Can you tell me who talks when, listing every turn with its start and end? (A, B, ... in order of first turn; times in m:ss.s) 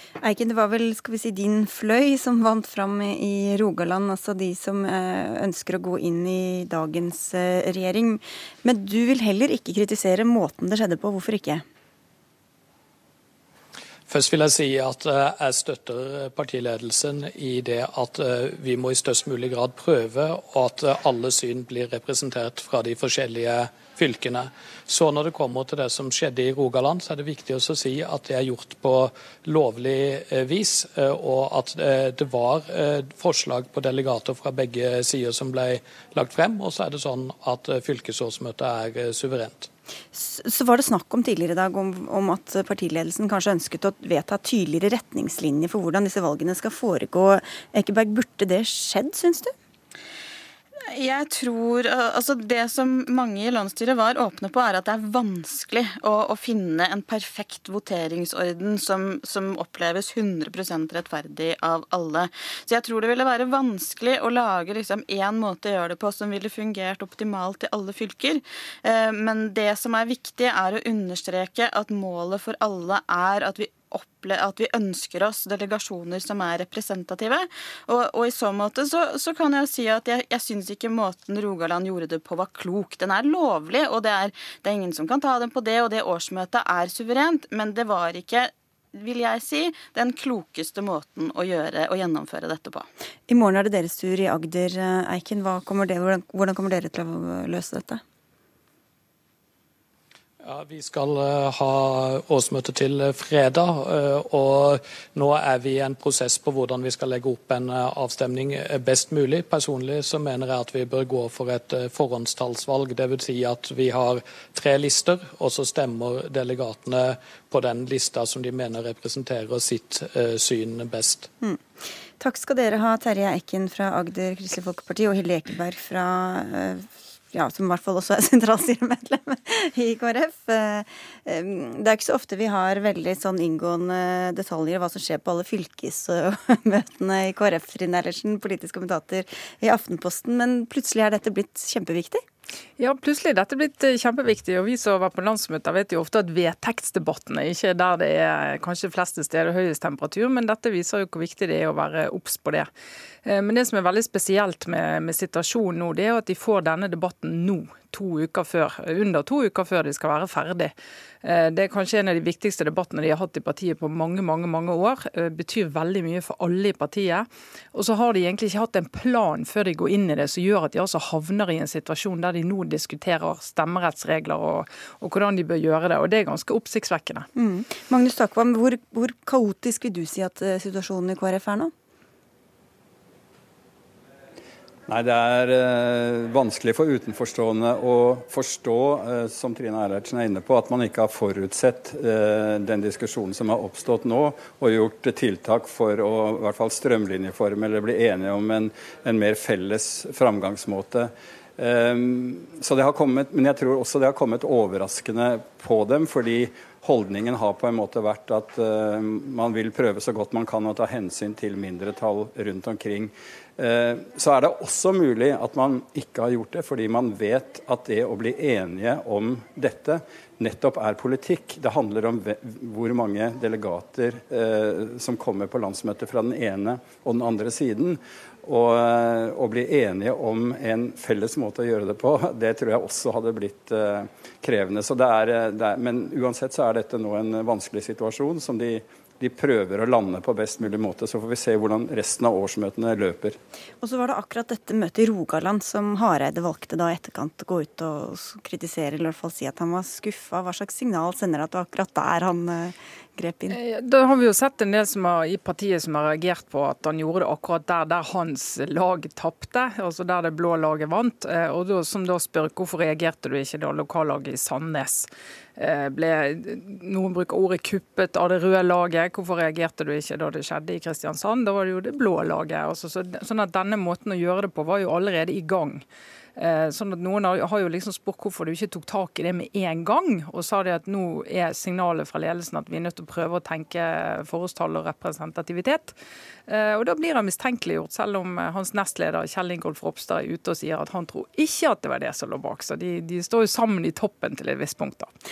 0:00.2-0:11.6 A
0:14.1-0:39.7 B
0:40.1-0:49.5 A
0:50.9-1:32.9 C
1:33.3-1:38.0 A
1:40.4-2:01.3 B
2:02.2-2:22.2 A
2:22.8-2:32.7 D
2:33.2-2:57.3 D
2:57.3-3:01.7 A
3:04.9-4:03.4 E
4:03.8-4:13.6 A
4:13.5-4:35.8 D
4:36.4-4:45.9 D
4:46.5-4:55.1 D